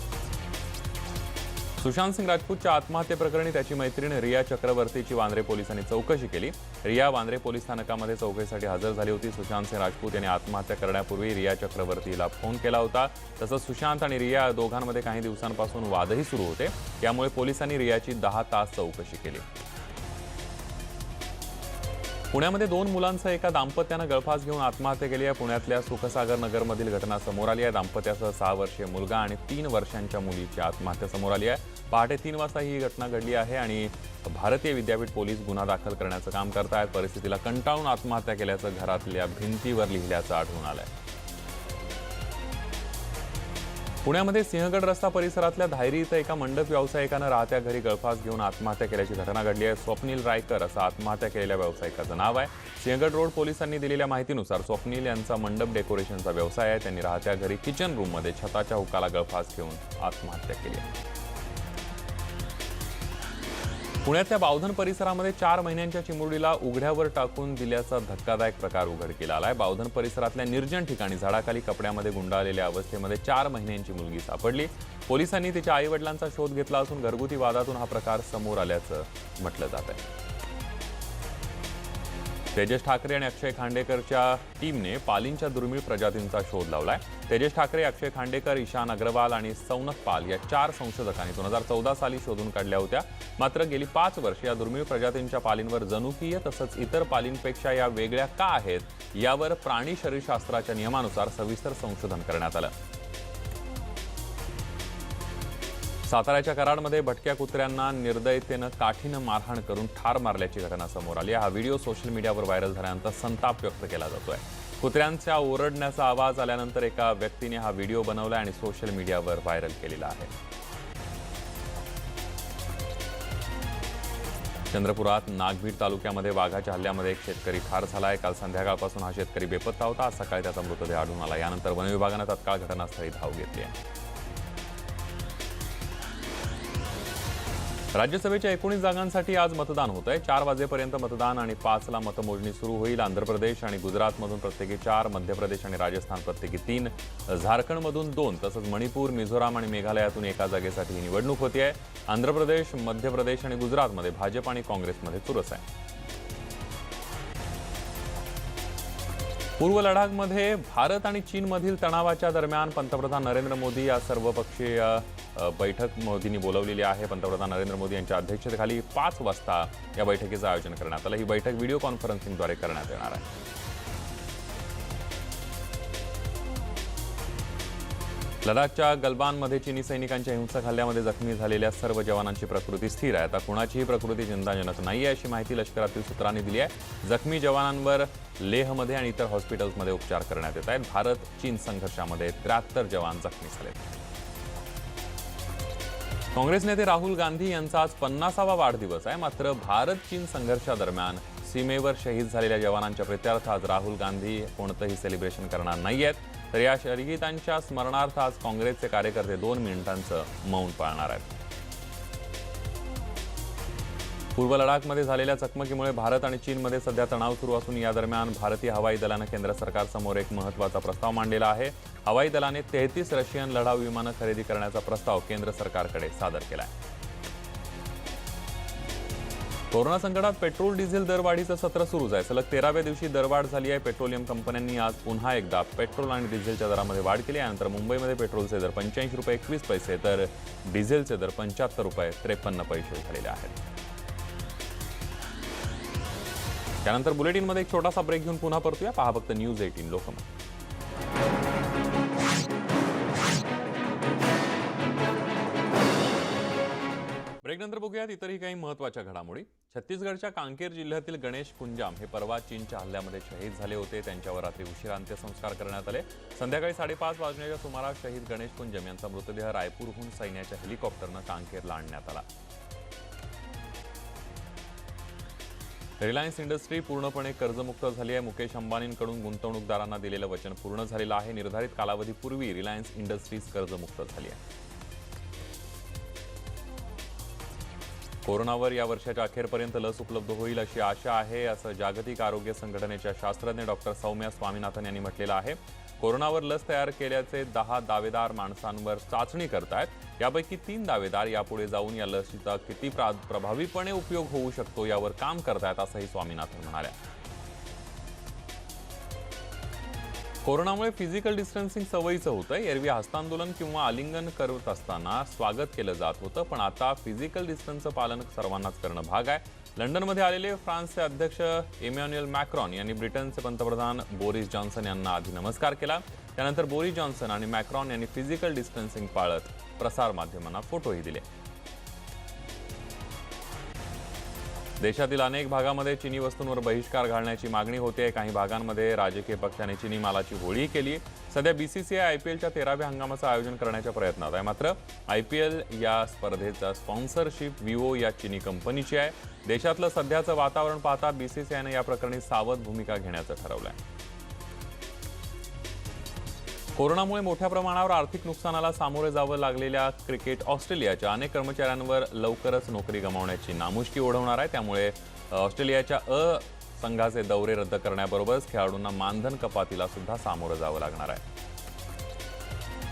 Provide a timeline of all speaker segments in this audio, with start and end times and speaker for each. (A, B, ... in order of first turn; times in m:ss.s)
0:01.8-0:19.4 A
0:22.3-0:40.9 A
0:44.0-1:00.9 A
1:04.0-1:20.0 A
1:22.5-1:42.7 A
1:46.0-2:00.3 A
2:04.7-2:13.7 A
2:17.9-2:35.6 A
2:39.6-2:53.3 A
2:58.4-3:13.9 A
3:16.3-3:31.3 A
3:34.3-3:46.7 A
3:49.7-4:03.6 A
4:06.8-4:10.2 A
4:17.4-4:32.2 A
4:36.0-4:44.4 A
4:48.2-5:07.0 A
5:10.4-5:31.3 A
5:34.8-5:53.8 A
5:56.7-6:11.2 A